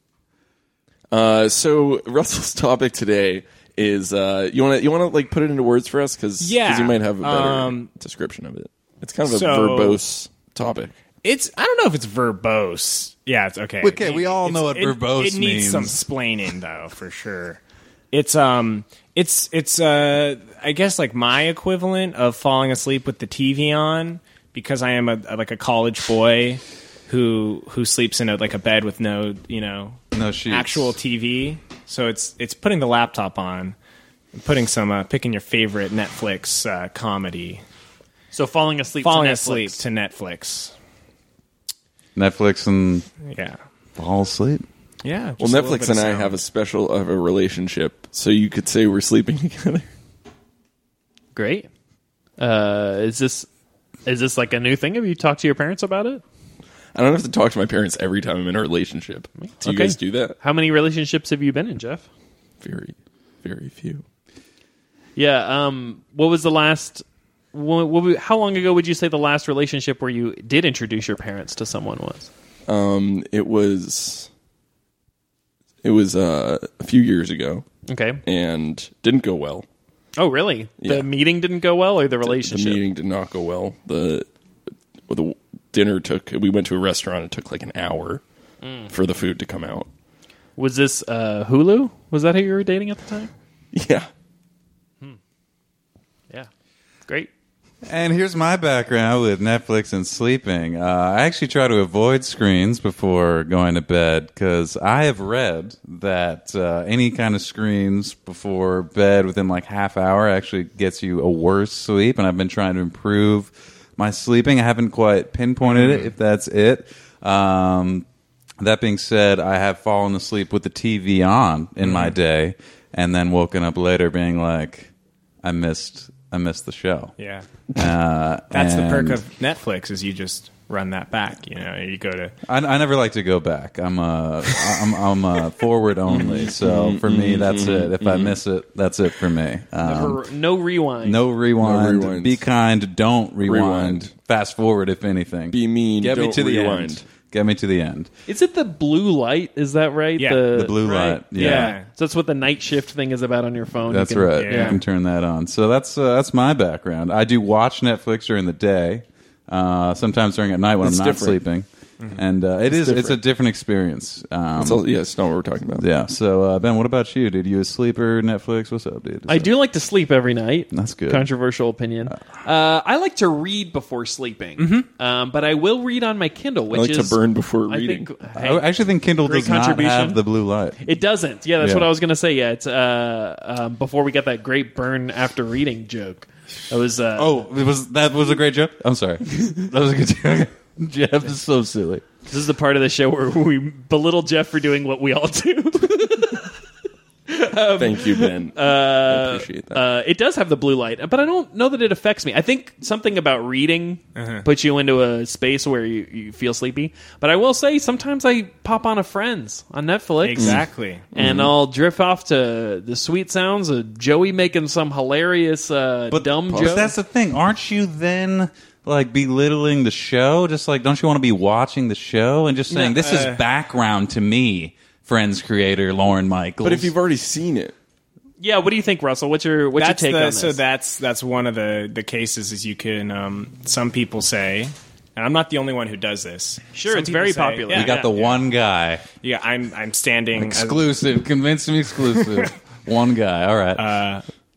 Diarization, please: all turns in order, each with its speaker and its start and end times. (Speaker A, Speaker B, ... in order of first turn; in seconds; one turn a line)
Speaker A: 1.1-10.9
Speaker B: 6.4-7.9
Speaker B: 9.3-10.0
Speaker B: 11.2-17.6
Speaker C: 13.8-16.0
Speaker B: 18.1-33.8
Speaker C: 30.1-30.9
Speaker B: 34.4-37.6
Speaker D: 38.3-39.8
Speaker B: 39.0-40.7
Speaker C: 42.1-43.0
Speaker B: 43.2-43.6
Speaker C: 44.0-44.6
Speaker B: 45.0-46.4
Speaker A: 45.4-49.9
Speaker D: 51.3-51.7
Speaker D: 52.4-53.5
Speaker D: 54.0-56.2
Speaker A: 56.9-60.4
Speaker D: 59.4-62.1
Speaker A: 62.6-64.0
Speaker D: 65.2-72.3
Speaker A: 72.7-74.3
Speaker A: 75.8-77.6
Speaker D: 77.9-78.2
Speaker A: 78.2-79.7
Speaker D: 80.2-82.8
Speaker A: 80.8-81.1
Speaker A: 82.2-84.3
Speaker A: 85.1-88.2
Speaker D: 88.6-88.9
Speaker A: 88.9-89.9
Speaker D: 90.6-93.3
Speaker A: 93.7-94.1
Speaker D: 97.0-97.3
Speaker C: 97.8-118.0
Speaker B: 115.7-116.1
Speaker C: 118.6-124.9
Speaker B: 121.8-122.1
Speaker C: 125.4-127.1
Speaker B: 127.2-127.5
Speaker C: 127.7-129.2
Speaker B: 128.5-132.3
Speaker C: 132.4-140.2
Speaker A: 136.1-138.4
Speaker D: 139.8-141.2
Speaker C: 141.0-148.1
Speaker A: 141.6-142.4
Speaker A: 143.4-144.1
Speaker A: 145.5-147.0
Speaker D: 148.3-150.8
Speaker B: 150.2-151.9
Speaker C: 150.5-151.8
Speaker D: 151.3-154.8
Speaker C: 153.9-164.8
Speaker B: 154.4-154.8
Speaker A: 160.8-161.4
Speaker A: 162.7-163.2
Speaker A: 164.6-165.8
Speaker C: 165.8-169.6
Speaker D: 169.3-178.7
Speaker C: 170.7-171.2
Speaker B: 174.6-174.9
Speaker A: 176.7-178.1
Speaker C: 178.3-180.8
Speaker D: 179.2-180.2
Speaker D: 180.8-187.4
Speaker C: 181.6-181.9
Speaker C: 187.2-192.0
Speaker D: 192.2-196.5
Speaker D: 197.3-210.6
Speaker A: 197.8-199.8
Speaker B: 204.2-204.4
Speaker B: 210.2-211.0
Speaker D: 211.1-216.9
Speaker A: 211.2-211.5
Speaker C: 216.1-226.9
Speaker A: 216.5-216.9
Speaker B: 222.7-223.4
Speaker A: 226.6-227.7
Speaker D: 228.4-230.6
Speaker B: 229.8-238.4
Speaker D: 236.7-238.1
Speaker C: 237.7-239.0
Speaker B: 239.2-240.9
Speaker C: 240.3-243.8
Speaker B: 243.8-244.2